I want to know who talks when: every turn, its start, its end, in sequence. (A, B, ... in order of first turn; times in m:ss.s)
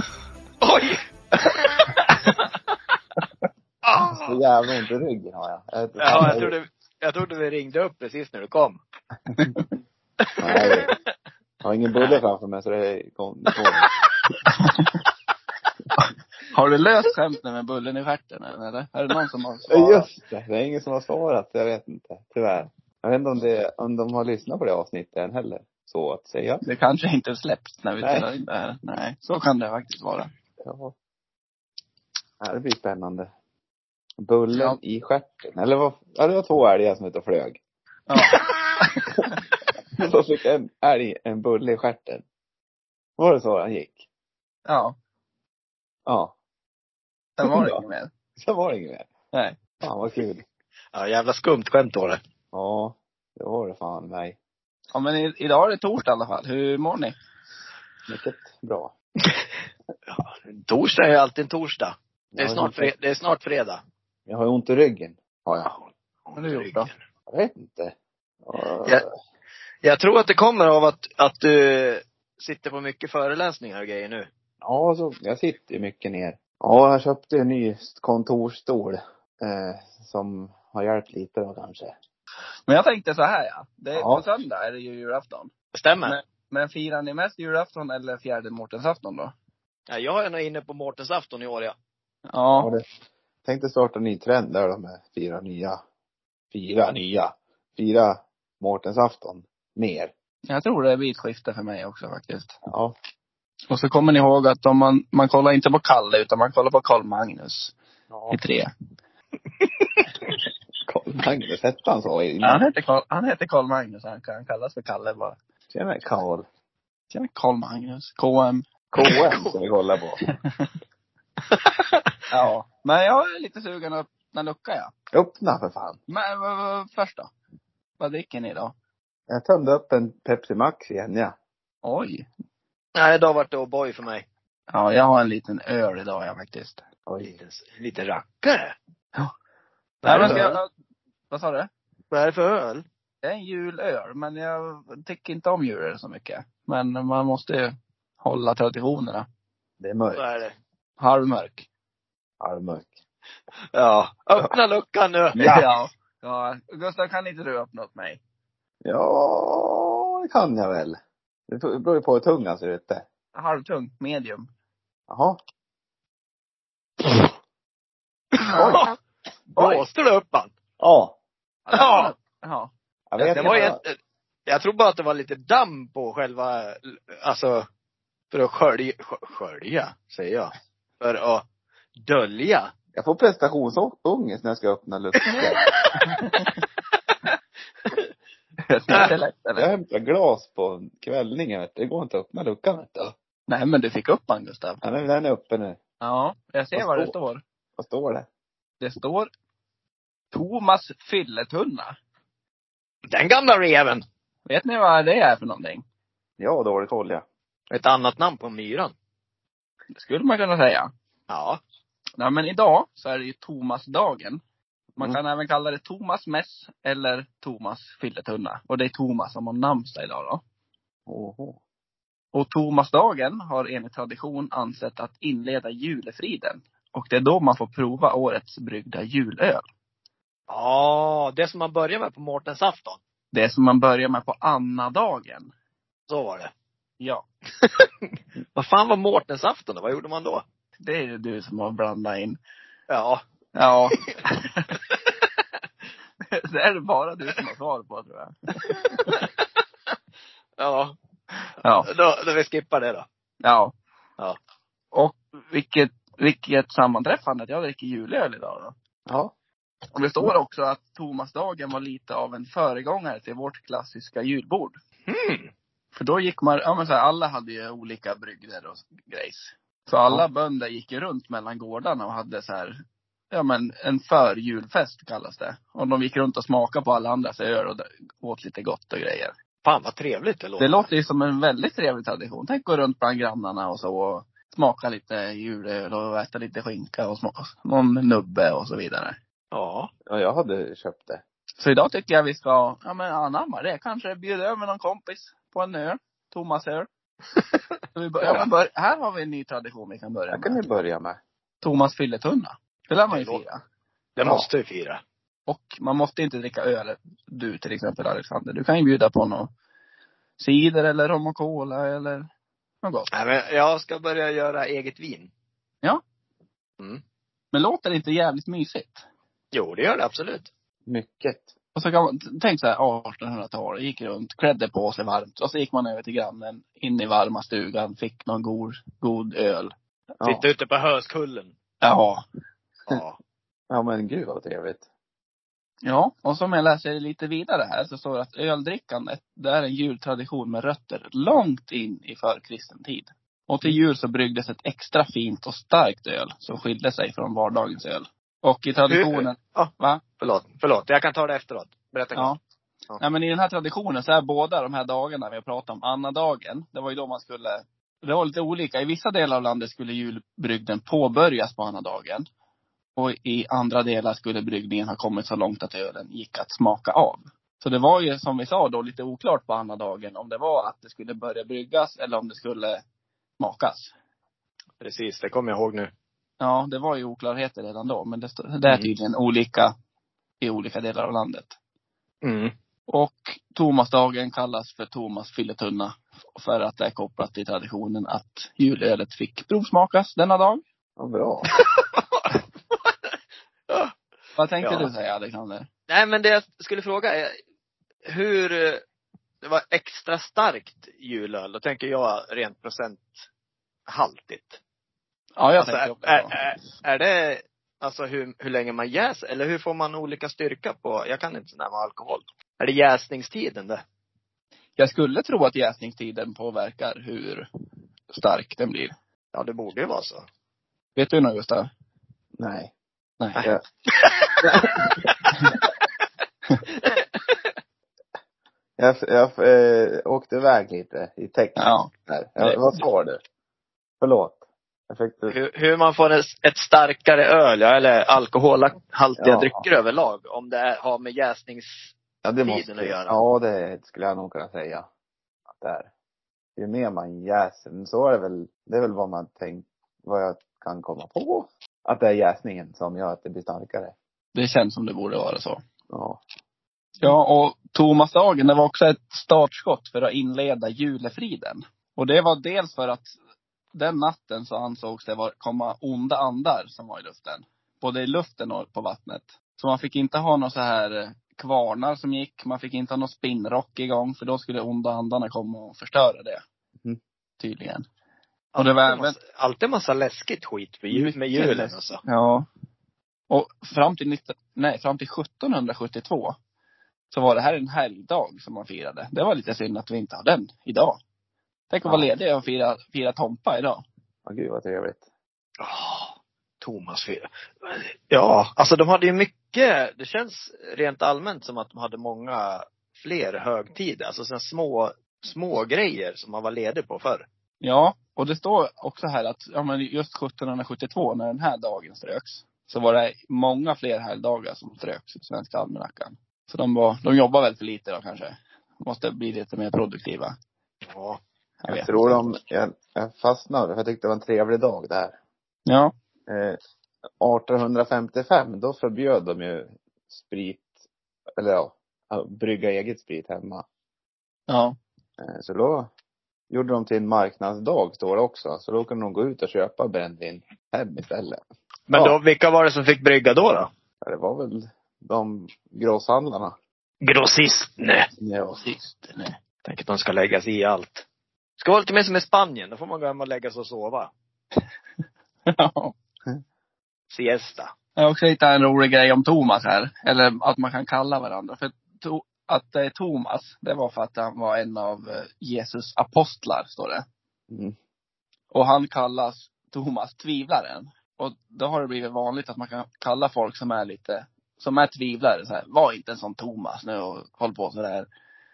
0:00.6-0:02.4 A
0:03.8-0:04.4 A
0:04.1-0:06.5 B
0:06.0-0:08.8 A
0:09.3-0:09.7 C
0:10.2-0:11.0 A
0:10.4-0:10.9 B
0:11.6-0:13.9 B
0:11.9-0:12.2 A
0:14.6-0:15.0 C
0:16.5-0:20.1 C
0:19.7-0:26.6 B
0:26.6-0:30.3 C
0:28.0-0:28.3 B
0:30.6-0:30.9 B
0:32.4-0:33.3 B
0:34.2-0:37.6 B
0:34.5-0:34.8 C
0:38.1-0:39.4 C
0:40.0-0:42.2 B
0:43.2-0:44.0 B
0:44.7-0:44.9 C
0:46.1-0:46.3 B
0:47.4-0:48.1 C
0:47.4-0:47.8 B
0:48.4-0:49.1 B
0:49.3-0:49.6 C
0:49.8-0:50.4 B
0:50.9-0:52.2 A
0:52.5-0:54.4 B
0:54.9-0:57.1 C
0:58.1-0:58.9 B
1:00.1-1:03.8 A
1:02.3-1:02.9 B
1:04.3-1:05.7 B
1:05.7-1:07.0 A
1:06.4-1:06.9 C
1:07.3-1:09.0 B
1:09.8-1:14.3 A
1:14.6-1:21.9 B
1:22.7-1:25.5 C
1:23.9-1:24.2 B
1:25.7-1:26.2 A
1:26.0-1:29.3 C
1:29.9-1:31.8 A
1:32.3-1:32.7 C
1:32.5-1:32.8 B
1:33.4-1:35.8 B
1:36.5-1:40.1 B
1:40.5-1:42.6 C
1:42.7-1:43.0 B
1:43.7-1:47.7 C
1:48.1-1:48.4 B
1:48.3-1:48.7 C
1:50.9-1:52.6 B
1:52.4-1:55.4 C
1:55.7-1:56.4 B
1:57.1-1:58.6 C
1:58.9-2:00.2 B
1:59.0-1:59.6 A
2:00.2-2:00.7 C
2:01.5-2:01.8 A
2:02.3-2:04.9 C
2:05.1-2:06.0 B
2:06.1-2:07.3 C
2:08.0-2:08.7 C
2:09.3-2:11.3 B
2:11.8-2:12.3 C
2:13.0-2:14.2 A
2:14.7-2:16.8 C
2:17.1-2:17.3 B
2:17.2-2:18.7 A
2:20.0-2:20.6 A
2:20.1-2:20.7 C
2:20.1-2:20.5 B
2:21.3-2:21.7 C
2:22.1-2:22.8 A
2:23.2-2:29.2 C
2:29.8-2:30.3 B
2:30.2-2:30.5 A
2:31.0-2:31.6 C
2:32.4-2:32.9 B
2:33.7-2:35.6 A
2:35.3-2:35.7 B
2:35.4-2:38.2 C
2:38.8-2:43.0 B
2:43.3-2:44.5 C
2:45.1-2:45.4 B
2:48.5-2:48.9 B
2:48.6-2:48.9 A
2:49.6-2:49.8 C
2:49.6-2:50.5 A
2:50.8-2:51.2 B
2:51.6-2:53.7 C
2:51.7-2:52.1 A
2:53.1-2:53.8 B
2:53.3-2:54.0 A
2:54.5-2:57.6 A
2:58.3-3:01.4 A
3:02.0-3:02.7 A
3:02.9-3:05.6 B
3:05.2-3:06.0 A
3:06.1-3:06.5 C
3:08.7-3:09.7 C
3:08.9-3:13.1 B
3:13.5-3:14.8 C
3:14.8-3:15.8 B
3:16.0-3:17.4 C
3:16.7-3:17.1 B
3:17.8-3:18.2 B
3:18.8-3:19.3 C
3:20.3-3:22.0 C
3:23.1-3:24.0 A
3:24.4-3:25.8 C
3:26.4-3:27.2 B
3:27.7-3:28.9 A
3:29.9-3:30.9 C
3:31.3-3:31.6 A
3:32.2-3:34.4 C
3:35.0-3:40.4 C
3:41.1-3:41.6 B
3:42.3-3:49.6 C
3:50.5-3:53.0 A
3:53.3-3:55.5 C
3:56.1-3:56.5 A
3:57.6-3:57.9 A
3:58.5-4:00.4 A
4:00.8-4:02.4 C
4:02.9-4:03.2 A
4:03.5-4:04.7 C
4:06.3-4:09.2 C
4:10.6-4:11.0 A
4:11.6-4:11.9 C
4:11.8-4:13.0 A
4:13.4-4:13.7 C
4:14.9-4:18.7 C
4:19.1-4:19.3 B
4:19.9-4:24.8 C
4:25.1-4:25.5 A
4:25.9-4:32.7 C
4:33.3-4:39.3 C
4:39.6-4:40.8 A
4:40.6-4:49.2 C
4:49.5-4:49.9 A
4:50.1-4:51.2 B
4:51.6-4:56.9 C
4:57.9-5:00.6 C
5:00.3-5:01.2 B
5:01.6-5:03.6 C
5:03.1-5:03.4 A
5:04.2-5:05.0 A
5:04.2-5:04.5 B
5:05.5-5:09.5 C
5:10.4-5:12.3 C
5:12.8-5:13.1 C
5:13.1-5:15.3 A
5:17.5-5:19.0 C
5:19.5-5:20.5 A
5:20.9-5:21.5 B
5:21.7-5:29.7 C
5:30.2-5:31.5 A
5:31.8-5:32.2 C
5:32.9-5:33.2 A
5:33.7-5:34.8 B
5:35.8-5:50.0 C
5:48.9-5:52.3 A
5:53.0-6:02.2 C
6:03.0-6:12.8 C
6:13.4-6:13.9 C
6:14.8-6:15.9 A
6:16.4-6:19.7 C
6:20.4-6:21.5 C
6:22.2-6:22.5 A
6:22.9-6:30.6 C
6:31.0-6:31.5 B
6:31.5-6:32.4 A
6:34.4-6:35.7 C
6:34.6-6:34.9 A
6:35.9-6:37.3 A
6:38.1-6:38.8 A
6:39.4-6:43.1 A
6:43.9-6:44.6 A
6:45.4-6:46.4 C
6:45.6-6:53.8 A
6:54.8-6:57.5 C
6:58.1-6:58.9 C
6:59.3-7:00.2 A
7:01.0-7:01.7 C
7:02.4-7:02.7 B
7:03.2-7:03.4 C
7:03.4-7:04.5 A
7:04.4-7:05.1 B
7:06.8-7:07.4 A
7:08.8-7:13.2 B
7:11.6-7:12.8 C
7:14.0-7:15.3 B
7:15.3-7:23.2 A
7:19.2-7:19.6 B
7:22.2-7:24.9 B
7:25.5-7:25.9 B
7:26.6-7:33.9 B
7:34.3-7:35.6 C
7:35.9-7:36.2 B
7:37.0-7:43.1 C
7:43.7-7:56.4 C
7:57.4-7:57.8 C
7:58.5-8:02.0 A
7:58.6-7:59.2 C
8:00.9-8:02.5 C
8:03.3-8:06.3 C
8:07.1-8:11.0 C
8:11.7-8:13.8 C
8:11.8-8:12.1 B
8:14.2-8:15.0 B
8:15.6-8:27.2 A
8:27.6-8:40.3 C
8:40.9-8:41.2 A
8:41.6-8:42.4 C
8:41.7-8:45.2 B
8:45.7-8:45.9 C
8:46.3-8:46.6 B
8:47.2-8:50.7 B
8:51.4-8:53.6 B
8:54.5-8:54.7 C
8:55.2-8:55.9 B
8:56.5-9:01.4 B
9:01.9-9:03.7 A
9:04.0-9:06.5 B
9:07.0-9:08.1 A
9:08.2-9:08.7 B
9:08.5-9:09.4 C
9:09.6-9:11.0 A
9:11.6-9:14.1 A
9:15.5-9:15.9 C
9:17.1-9:17.7 A
9:18.0-9:27.0 C
9:27.5-9:27.8 B
9:28.5-9:38.1 C